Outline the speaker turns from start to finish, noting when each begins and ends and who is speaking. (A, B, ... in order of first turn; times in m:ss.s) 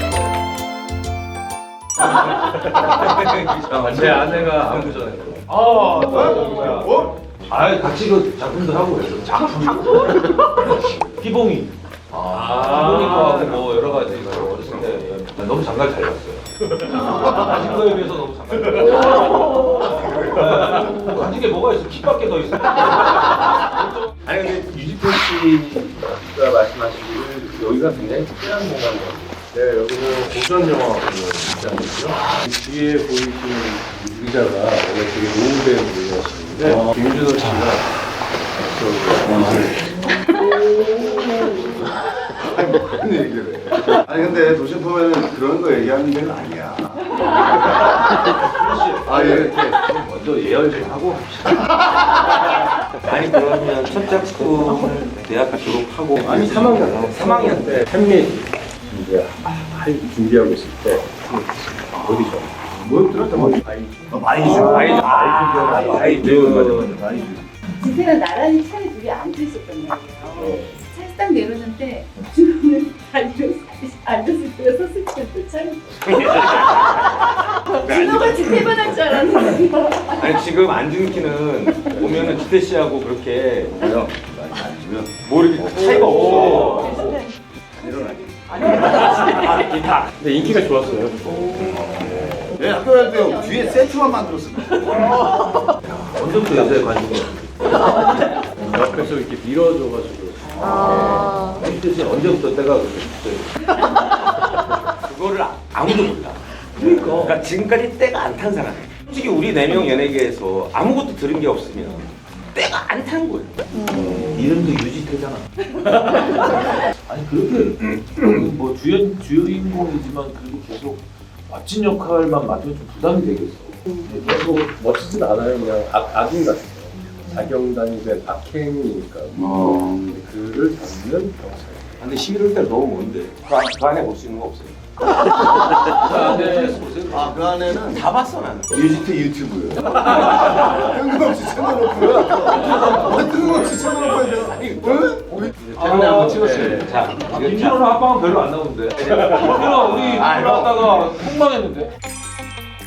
0:02.8-0:05.2 A
0:03.7-0:05.5 B
0:05.5-0:24.1 C
0:06.1-0:07.1 D
0:12.7-0:14.8 A
0:24.3-0:29.4 A
0:29.5-0:37.9 B
0:38.5-0:40.1 B
0:39.2-0:39.8 D
0:40.8-0:47.9 D
0:48.4-0:51.7 C
0:49.1-0:49.6 D
0:53.0-0:57.9 A
0:56.2-1:02.6 B
0:56.2-0:56.8 D
1:02.8-1:03.6 D
1:03.4-1:04.2 B
1:04.1-1:05.0 D
1:04.3-1:07.0 C
1:04.5-1:07.0 A
1:05.7-1:07.4 D
1:07.7-1:16.5 E
1:15.9-1:23.8 A
1:17.5-1:20.3 E
1:23.7-1:26.8 D
1:25.2-1:27.1 A
1:25.9-1:27.2 C
1:27.7-1:28.7 D
1:28.7-1:30.5 A
1:29.0-1:32.4 B
1:31.6-1:35.2 D
1:35.8-1:39.1 C
1:38.6-1:41.2 B
1:40.5-1:44.2 C
1:45.0-1:53.9 A
1:46.8-1:47.4 C
1:53.8-1:54.5 D
1:54.0-2:04.7 C
2:04.3-2:12.0 B
2:09.4-2:09.9 D
2:12.0-2:14.8 A
2:15.9-2:17.5 C
2:16.1-2:16.7 B
2:17.1-2:18.1 D
2:17.8-2:19.1 A
2:18.7-2:25.5 D
2:22.6-2:23.2 C
2:23.9-2:27.8 A
2:25.7-2:31.9 C
2:26.0-2:27.0 B
2:29.2-2:30.9 A